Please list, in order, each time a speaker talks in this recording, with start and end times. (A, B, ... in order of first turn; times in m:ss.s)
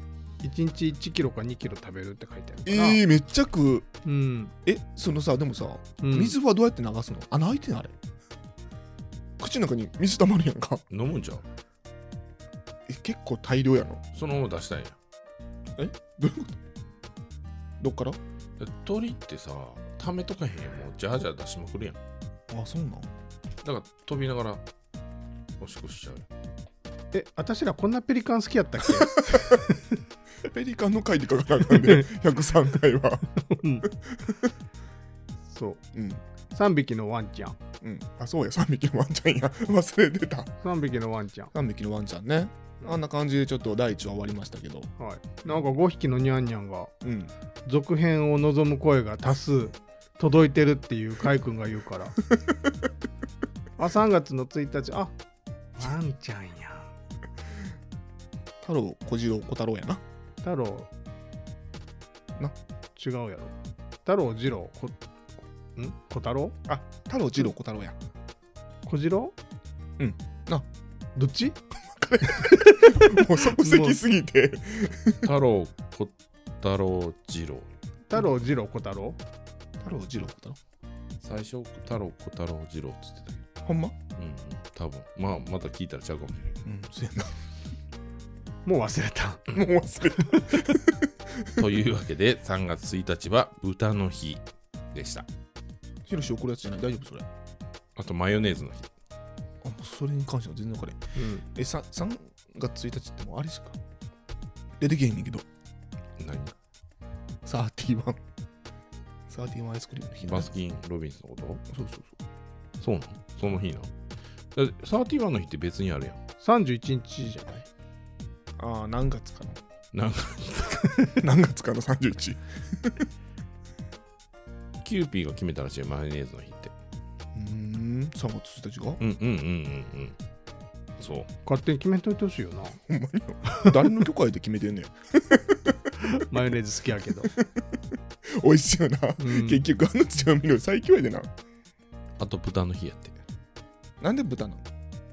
0:00.4-0:03.0 A
0:02.6-0:03.9 B
0:04.0-0:04.5 A
0:04.6-0:07.9 B
0:06.0-0:06.3 A
0:09.4-0:10.8 B
0:10.9-0:11.4 C
0:12.9-0:14.0 B
0:14.1-0:14.9 C
0:15.8-0:16.6 B
0:17.8-0:18.2 B
0:18.6-0:22.0 C
0:22.5-0:23.1 B
0:23.6-0:24.6 C
0:25.6-0:26.2 C
0:27.1-0:29.8 A
0:30.4-0:33.2 B
0:31.7-0:32.1 A
0:33.5-0:33.9 A
0:33.8-0:34.5 B
0:35.5-0:35.8 A
0:35.9-0:36.2 B
0:36.5-0:37.6 A
0:37.8-0:40.5 B
0:40.6-0:41.5 A
0:41.5-0:44.9 B
0:45.0-0:46.9 A
0:47.0-0:47.3 B
0:47.6-0:52.2 A
0:53.8-0:55.1 A
0:55.8-0:56.9 A
0:58.6-1:00.0 B
1:00.4-1:00.9 A
1:03.0-1:03.5 A
1:04.0-1:05.0 A
1:05.8-1:06.6 A
1:06.7-1:08.0 B
1:08.8-1:09.3 A
1:10.0-1:10.7 B
1:11.2-1:11.6 A
1:11.9-1:15.3 B
1:12.2-1:14.0 A
1:15.2-1:17.7 C
1:18.1-1:19.2 A
1:19.8-1:20.6 B
1:21.2-1:23.4 C
1:23.6-1:24.0 B
1:24.2-1:26.6 C
1:26.6-1:27.4 B
1:28.6-1:29.5 A
1:29.5-1:31.5 B
1:30.2-1:30.6 A
1:31.6-1:35.2 C
1:36.1-1:37.3 B
1:38.0-1:38.9 C
1:39.6-1:43.8 B
1:41.2-1:41.4 A
1:44.8-1:45.4 B
1:46.2-1:46.5 C
1:47.4-1:48.2 B
1:49.3-1:50.5 B
1:50.3-1:51.6 C
1:51.7-1:52.1 B
1:52.8-1:53.9 C
1:54.5-1:56.2 C
1:56.4-1:57.7 A
1:58.6-1:59.6 B
1:59.9-2:01.2 C
2:01.2-2:03.1 B
2:04.8-2:06.7 C
2:07.3-2:09.0 B
2:09.0-2:10.2 C
2:11.0-2:11.3 C
2:11.4-2:12.8 A
2:12.9-2:15.8 B
2:13.5-2:13.8 A
2:16.0-2:17.3 A
2:17.3-2:17.6 B
2:18.3-2:21.3 B
2:19.2-2:19.6 A
2:22.2-2:23.2 C
2:24.0-2:24.6 B